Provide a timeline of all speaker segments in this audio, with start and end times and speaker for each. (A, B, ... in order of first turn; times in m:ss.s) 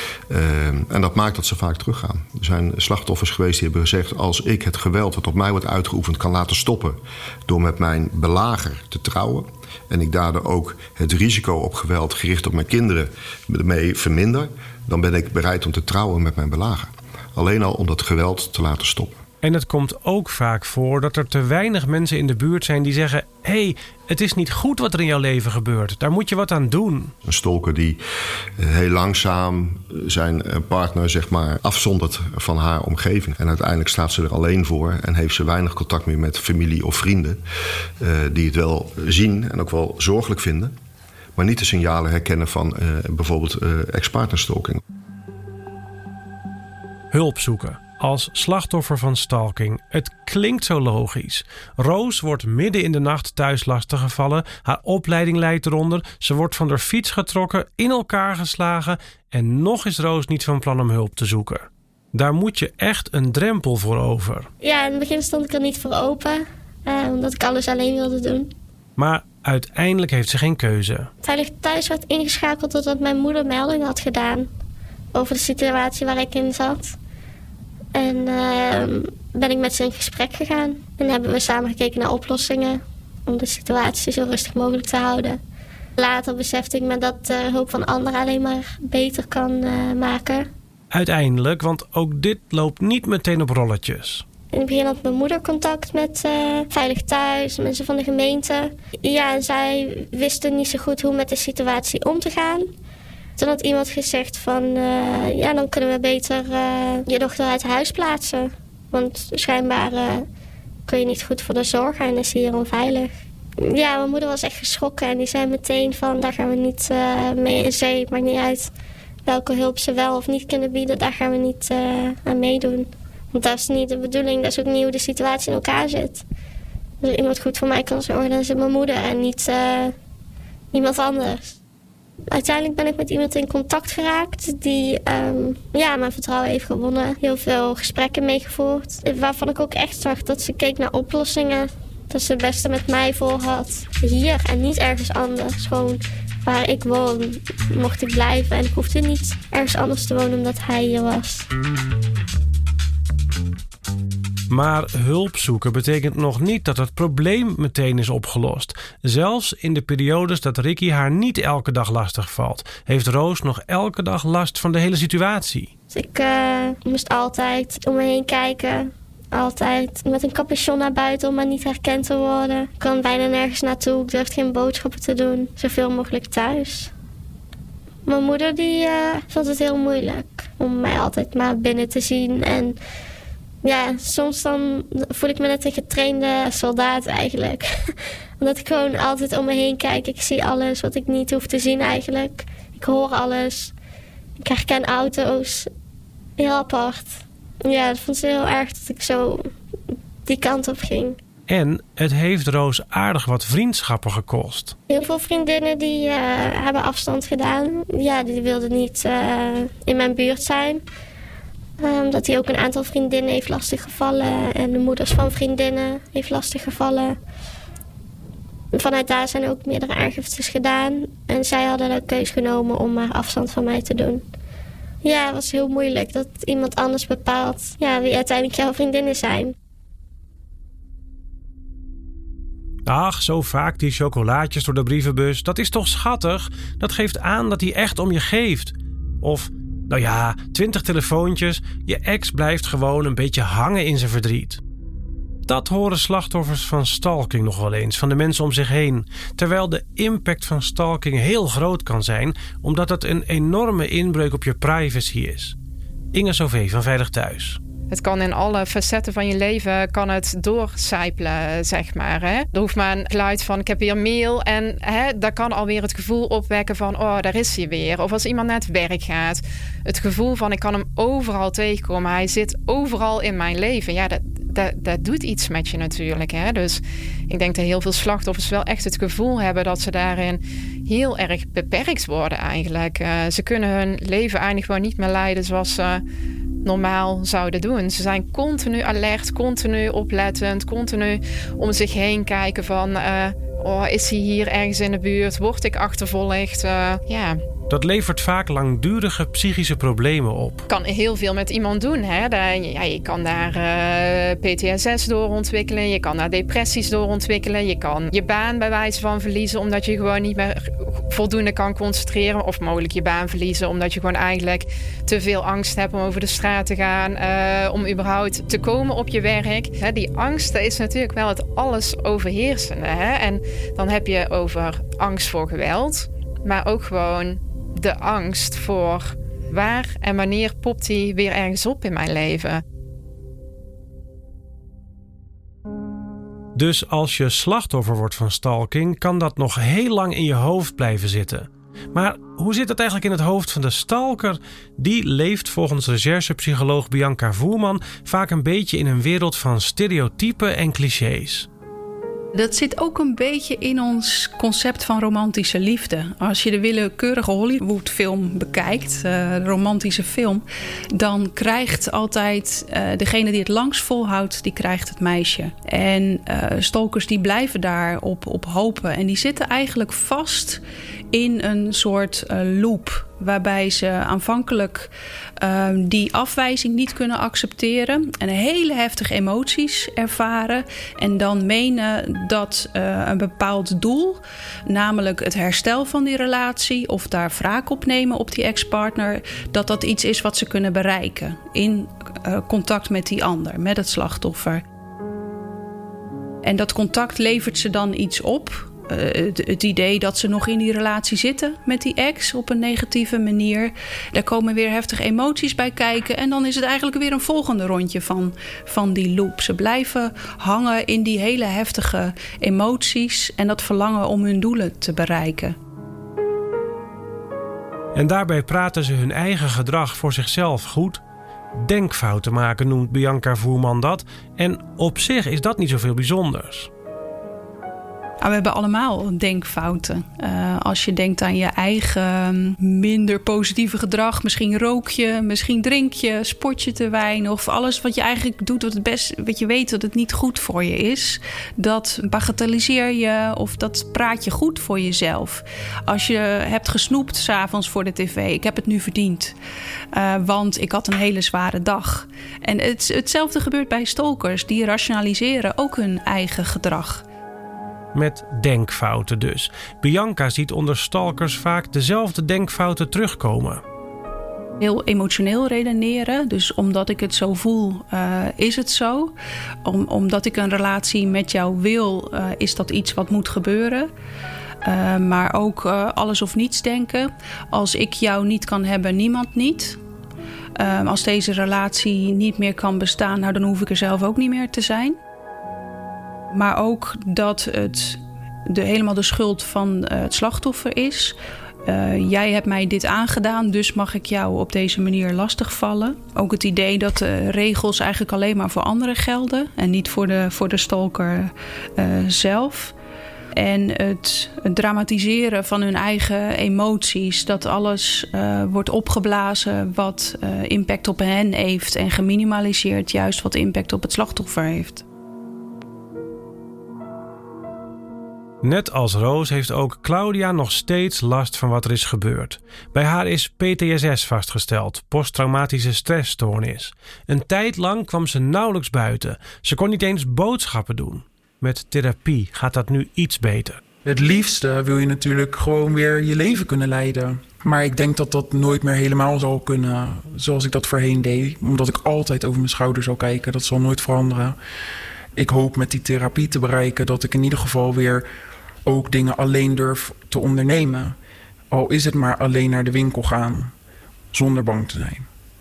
0:00.3-0:19.2 A
0:19.4-0:27.1 B
0:27.2-0:28.0 A
0:28.6-0:37.4 A
0:38.0-0:40.8 A
0:41.4-0:44.8 A
0:47.1-1:04.5 B
1:04.6-1:08.5 C
1:09.0-1:11.1 B
1:11.2-1:14.5 C
1:15.1-1:17.0 C
1:18.0-1:25.4 C
1:26.0-1:30.5 C
1:30.9-1:34.2 B
1:34.5-1:42.7 C
1:43.4-1:50.3 C
1:50.9-1:58.7 C
1:59.2-2:06.2 C
2:07.0-2:10.0 C
2:10.7-2:11.6 C
2:12.3-2:31.5 C
2:34.5-2:45.7 B
2:45.9-2:56.9 C
2:58.1-3:02.8 C
3:03.6-3:13.7 C
3:14.4-3:15.7 C
3:16.4-3:19.5 C
3:20.3-3:21.2 C
3:21.5-3:24.8 B
3:24.9-3:30.8 C
3:31.8-3:37.2 C
3:38.7-3:44.2 C
3:45.0-3:49.6 C
3:52.9-4:04.6 B
4:05.5-4:15.6 B
4:16.1-4:17.6 B
4:17.9-4:46.0 D
4:46.6-4:57.4 D
4:57.7-5:00.6 B
5:00.7-5:32.6 D
5:36.6-5:51.5 B
5:52.3-6:10.6 E
6:11.1-6:34.6 E
6:36.4-6:55.6 E
6:58.0-7:01.0 B
7:01.6-7:06.7 B
7:08.2-7:29.4 E
7:29.9-7:37.0 E
7:38.0-7:43.6 B
7:44.6-7:49.1 E
7:49.6-7:53.9 E
7:54.6-7:59.8 E
8:00.6-8:05.0 E
8:06.3-8:22.7 E
8:23.4-8:34.8 E
8:38.4-8:53.6 B
8:53.8-9:04.4 F
9:05.2-9:08.1 F
9:08.6-9:11.0 F
9:11.5-9:13.5 F
9:14.1-9:15.1 F